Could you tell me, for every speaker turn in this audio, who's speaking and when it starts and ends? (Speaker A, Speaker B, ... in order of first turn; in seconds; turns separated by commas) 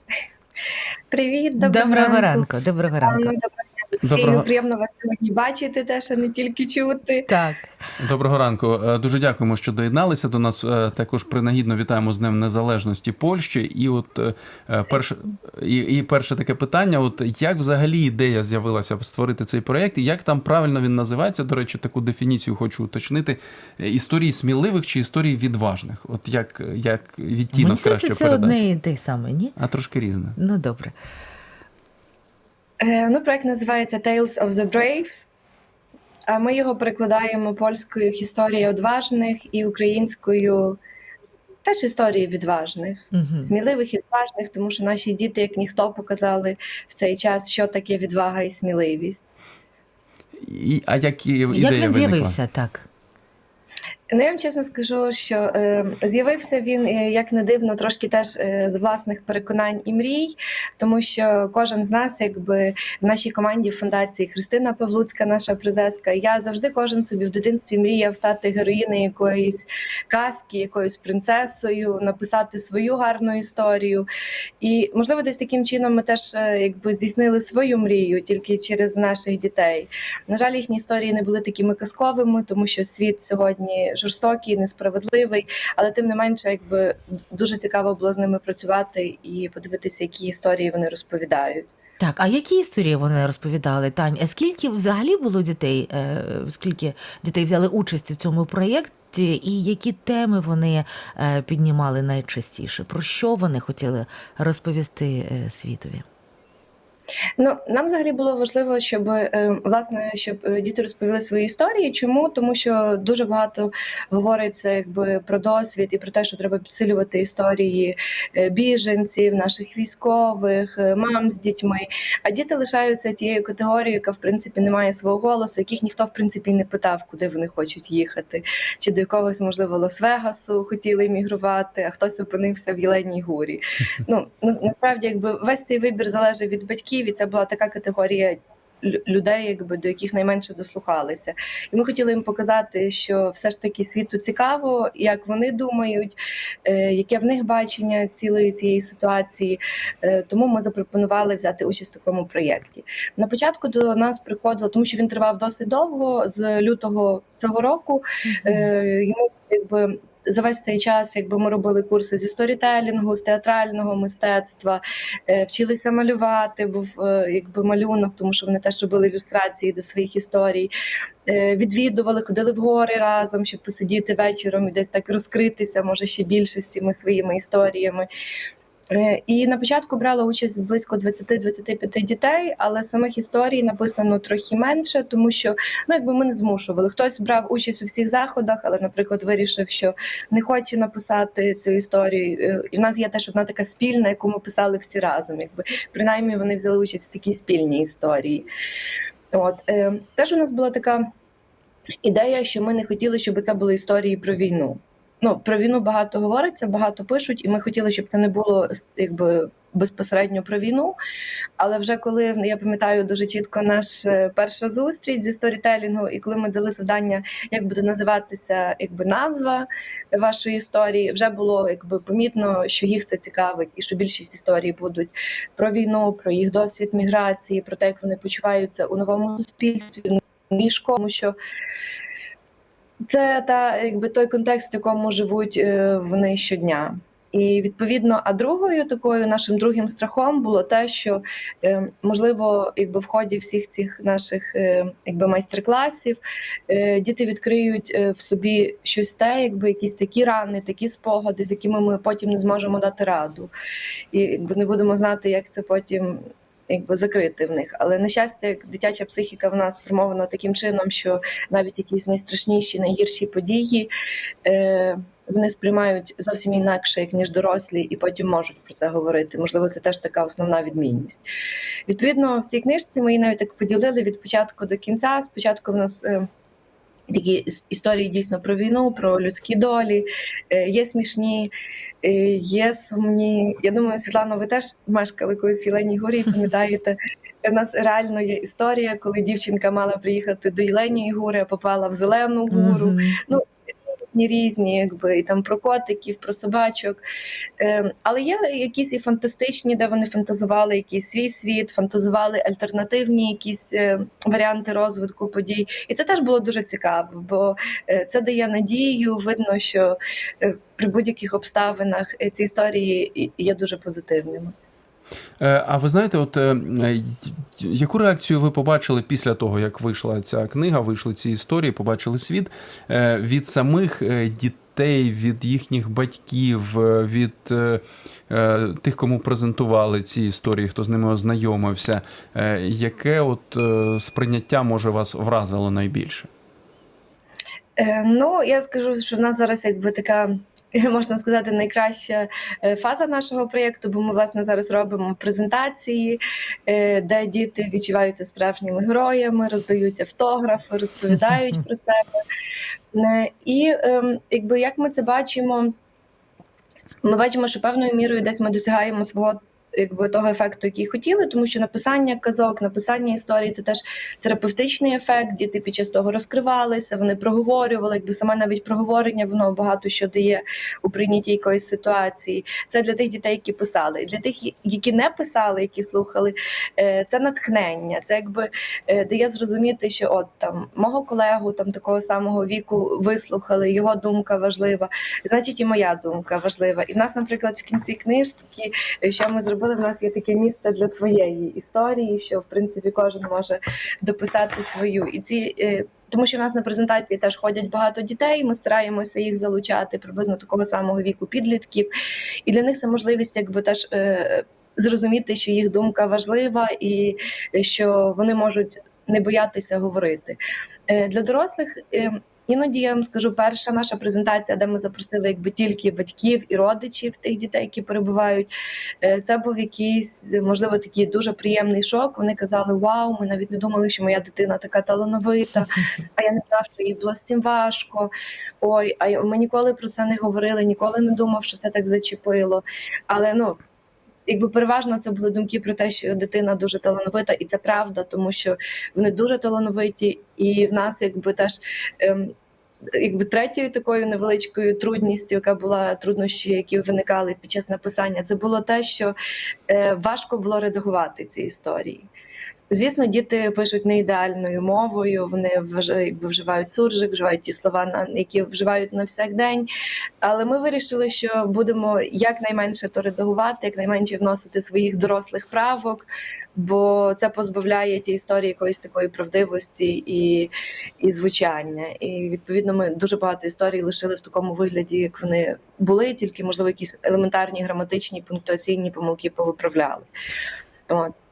Speaker A: 1.1-2.5, Speaker B: 1.6-3.3, Speaker A: 3.0-7.3, Speaker C: 4.0-4.5, Speaker B: 7.3-7.7, Speaker C: 8.0-28.6, Speaker B: 27.5-29.6, Speaker C: 29.6-30.4, Speaker B: 30.4-30.9, Speaker A: 32.8-35.3, Speaker A: 36.3-40.8, Speaker A: 41.6-49.3, Speaker B: 43.1-43.5, Speaker C: 50.4-52.4, Speaker B: 51.5-52.9, Speaker A: 54.1-74.1, Speaker A: 74.6-91.7, Speaker B: 92.0-106.0, Speaker A: 107.4-146.2, Speaker A: 146.7-170.7, Speaker B: 158.2-158.7, Speaker A: 171.3-178.1, Speaker A: 178.9-198.5, Speaker A: 199.3-201.0, Speaker A: 202.0-210.9, Speaker A: 211.6-231.4, Speaker A: 233.1-246.2, Speaker A: 246.7-253.5, Speaker A: 254.1-263.9, Speaker A: 264.4-271.2, Speaker A: 271.9-276.3, Speaker A: 277.1-281.5, Speaker A: 282.0-293.4, Speaker B: 292.5-293.2, Speaker A: 294.1-297.0, Speaker A: 297.6-314.5, Speaker C: 315.4-336.3, Speaker A: 337.8-352.0, Speaker A: 352.9-355.7, Speaker A: 357.0-401.9, Speaker A: 402.5-410.4, Speaker A: 410.9-418.5, Speaker A: 419.0-428.1, Speaker A: 428.6-433.6, Speaker A: 434.3-442.3, Speaker A: 443.0-449.1, Speaker A: 449.7-452.1, Speaker A: 452.7-459.7, Speaker A: 460.2-466.1, Speaker A: 466.6-480.1